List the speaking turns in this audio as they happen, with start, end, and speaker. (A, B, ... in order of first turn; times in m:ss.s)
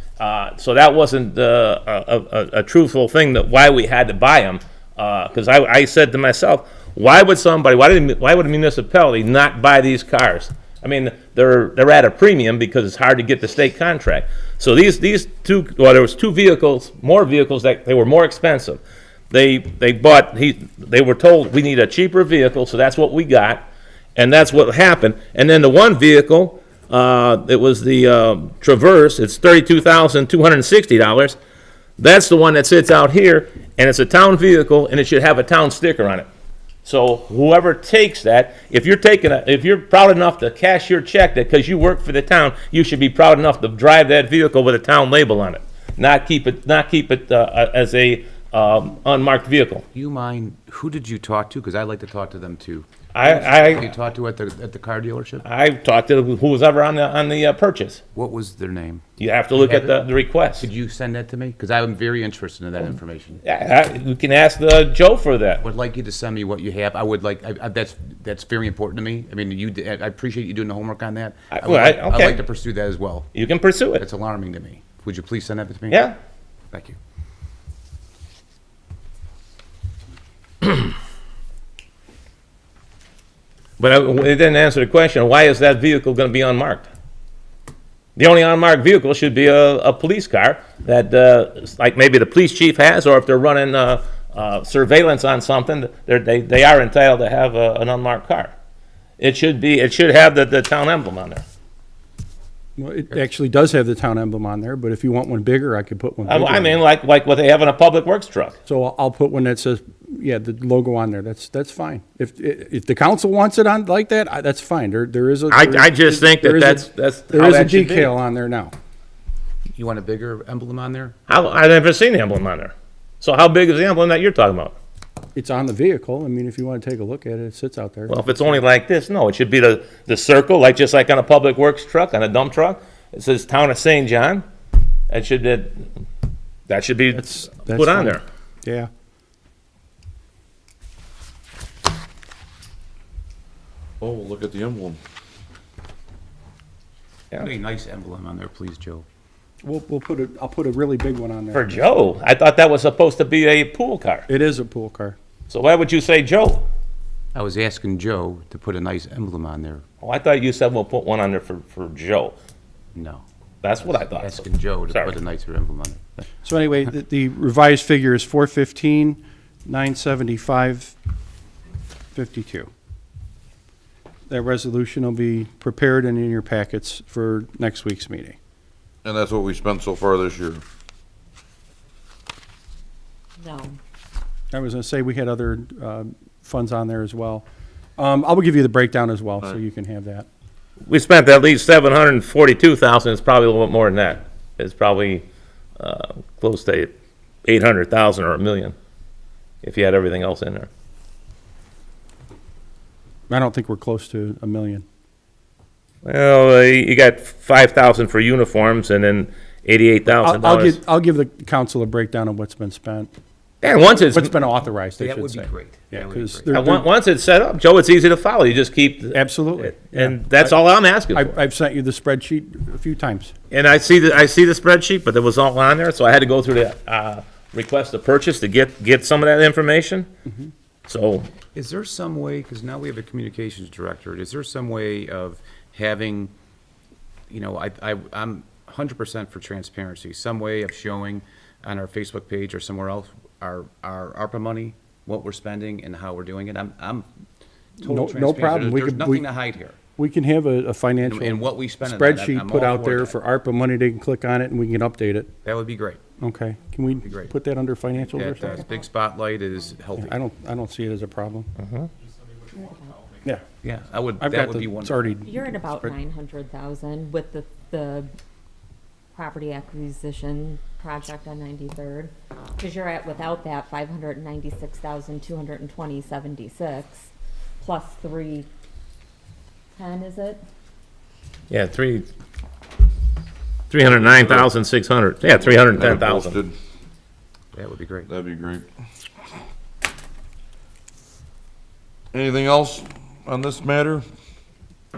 0:00.2-0:18.8 A
0:19.3-0:31.4 A
0:32.0-0:36.3 A
0:36.8-0:49.8 A
0:49.9-0:55.4 B
0:53.1-0:53.9 A
0:55.4-0:58.0 A
0:58.1-1:00.0 B
0:59.2-1:00.7 A
1:00.6-1:03.4 B
1:03.4-1:05.6 A
1:05.6-1:13.3 B
1:11.5-1:12.4 A
1:13.3-1:14.0 A
1:14.0-1:16.0 B
1:15.9-1:16.2 A
1:23.8-1:26.9 A
1:28.2-1:38.5 A
1:39.2-1:41.4 A
1:42.8-1:46.8 C
1:46.2-1:48.6 A
1:48.6-1:58.7 C
1:55.5-1:58.1 A
1:59.8-2:01.1 B
2:01.3-2:04.8 A
2:05.3-2:08.6 C
2:08.1-2:14.4 A
2:15.1-2:15.9 A
2:16.7-2:18.2 A
2:17.1-2:18.9 C
2:24.0-2:25.0 D
2:27.4-2:29.0 B
2:29.6-2:31.8 C
2:31.5-2:34.3 A
2:34.3-2:35.2 C
2:35.5-2:36.6 A
2:37.3-2:39.8 B
2:40.0-2:42.3 A
2:42.9-2:43.2 B
2:43.6-2:45.2 A
2:43.8-2:46.2 B
2:46.4-2:51.0 C
2:52.1-2:52.7 C
2:54.3-2:58.4 C
2:59.0-3:00.6 D
3:03.4-3:03.8 E
3:04.5-3:07.4 C
3:08.0-3:10.3 C
3:10.9-3:15.2 A
3:15.8-3:16.9 A
3:17.4-3:18.7 A
3:19.6-3:20.7 A
3:23.3-3:24.8 C
3:26.0-3:30.8 A
3:30.1-3:33.1 C
3:33.6-3:34.3 A
3:34.1-3:36.8 C
3:35.0-3:36.6 B
3:36.5-3:41.3 A
3:39.1-3:40.6 C
3:41.1-3:43.3 C
3:43.5-3:50.1 A
3:50.9-3:51.3 A
3:51.5-3:56.3 B
3:57.3-4:07.1 B
4:07.8-4:09.8 B
4:07.8-4:09.2 C
4:10.0-4:15.3 C
4:11.0-4:13.1 B
4:15.4-4:16.0 B
4:16.2-4:18.6 C
4:17.0-4:17.3 B
4:18.1-4:20.1 B
4:18.4-4:18.8 E
4:20.0-4:21.5 C
4:21.6-4:21.9 A
4:23.6-4:25.1 B
4:24.2-4:25.9 C
4:25.2-4:28.1 E
4:29.1-4:37.1 E
4:37.6-4:38.5 E
4:39.8-4:40.4 E
4:41.5-4:42.1 A
4:43.7-4:46.4 A
4:44.0-4:44.5 D
4:45.4-4:46.5 D
4:47.5-4:48.1 B
4:48.1-4:48.6 D
4:52.1-4:54.0 D